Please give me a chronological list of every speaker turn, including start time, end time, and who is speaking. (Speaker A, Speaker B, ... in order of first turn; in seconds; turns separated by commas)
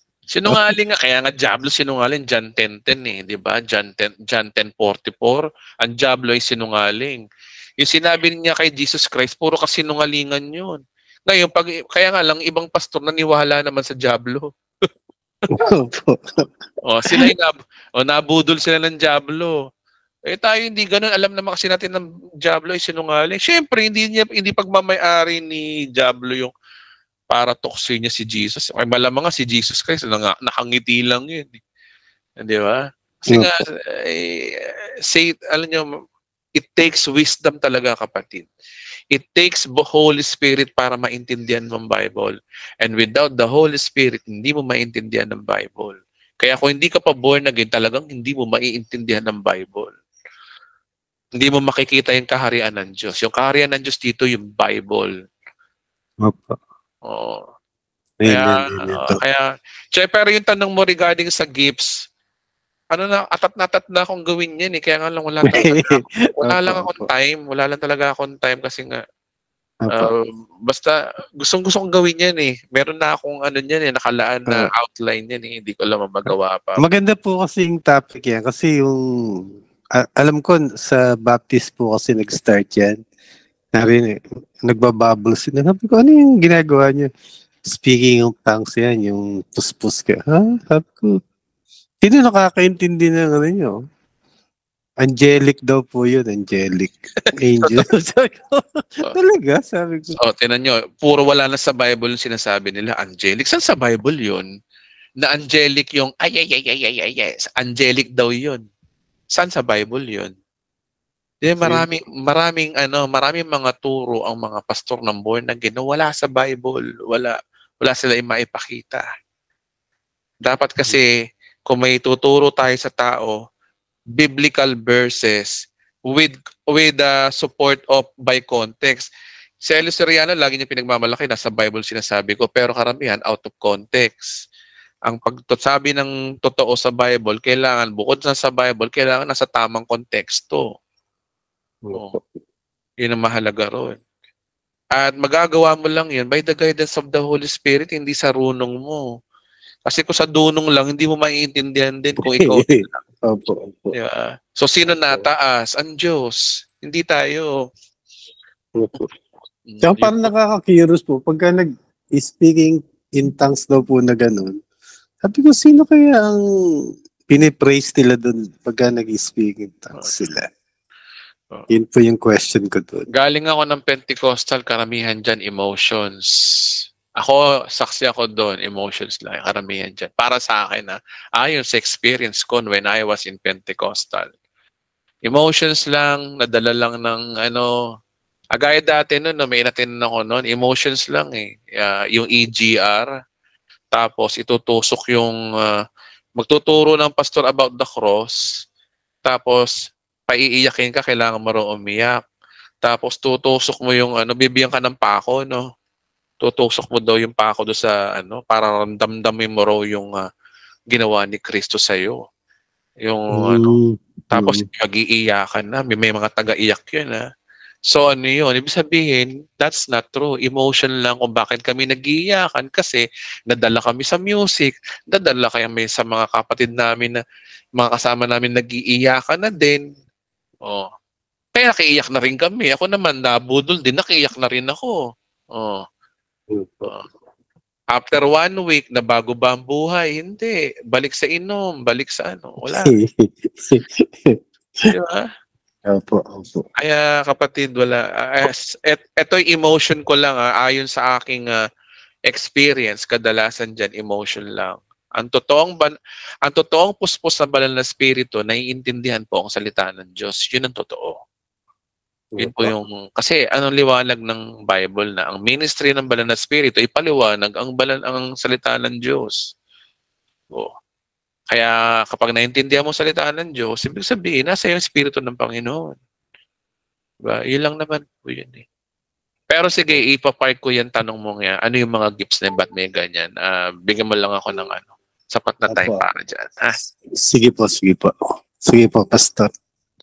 Speaker A: 0.3-7.2, Speaker A: 7.8-14.5, Speaker B: 15.5-16.4, Speaker A: 16.8-19.6, Speaker A: 20.3-26.5, Speaker A: 27.3-31.6, Speaker A: 32.4-35.9, Speaker B: 33.3-33.5, Speaker A: 36.6-38.5, Speaker A: 39.1-49.9, Speaker A: 51.4-55.1, Speaker B: 56.2-56.6, Speaker A: 57.1-57.4, Speaker B: 58.2-59.2, Speaker A: 58.3-61.9, Speaker A: 62.9-69.0, Speaker B: 65.4-67.0, Speaker B: 69.8-70.1, Speaker A: 69.9-76.8, Speaker B: 76.8-79.0, Speaker B: 80.0-83.0, Speaker B: 83.7-87.1, Speaker B: 87.7-91.1, Speaker B: 92.0-93.7, Speaker B: 95.0-100.2, Speaker A: 97.2-97.8, Speaker A: 100.2-104.5, Speaker A: 105.2-108.6, Speaker A: 109.3-110.3, Speaker A: 111.4-119.0, Speaker B: 111.6-111.9, Speaker A: 120.4-121.1, Speaker A: 121.7-123.3, Speaker A: 124.2-125.5, Speaker A: 126.1-129.1, Speaker A: 129.6-134.3, Speaker A: 135.1-140.7, Speaker B: 141.8-142.2, Speaker A: 143.0-144.0, Speaker A: 144.9-149.0, Speaker A: 149.9-153.0, Speaker B: 152.2-153.9, Speaker A: 153.9-157.5, Speaker B: 158.8-159.1, Speaker A: 159.7-160.3, Speaker B: 159.8-164.6, Speaker B: 165.2-166.4, Speaker B: 167.3-170.5, Speaker B: 171.7-173.0, Speaker A: 173.2-176.3, Speaker A: 177.2-184.3, Speaker A: 185.2-187.7, Speaker A: 188.6-193.1, Speaker A: 193.9-195.8, Speaker A: 196.4-198.3, Speaker A: 199.2-199.7, Speaker A: 200.3-202.2, Speaker A: 202.8-205.6, Speaker A: 206.4-210.1, Speaker A: 210.9-212.2, Speaker A: 213.0-213.7, Speaker B: 213.3-214.7, Speaker A: 214.3-217.2, Speaker A: 217.9-227.2, Speaker A: 227.8-229.8, Speaker A: 231.6-234.9, Speaker A: 235.5-235.8, Speaker B: 236.5-236.9, Speaker A: 237.9-242.9, Speaker B: 242.6-244.9, Speaker A: 244.9-245.3, Speaker B: 245.9-246.6, Speaker A: 246.8-251.6, Speaker A: 252.3-261.1, Speaker B: 262.3-262.7, Speaker A: 262.4-269.4, Speaker A: 271.5-275.9, Speaker A: 277.2-278.6, Speaker A: 279.5-286.7, Speaker B: 285.7-286.0, Speaker B: 287.2-288.1, Speaker B: 288.7-289.5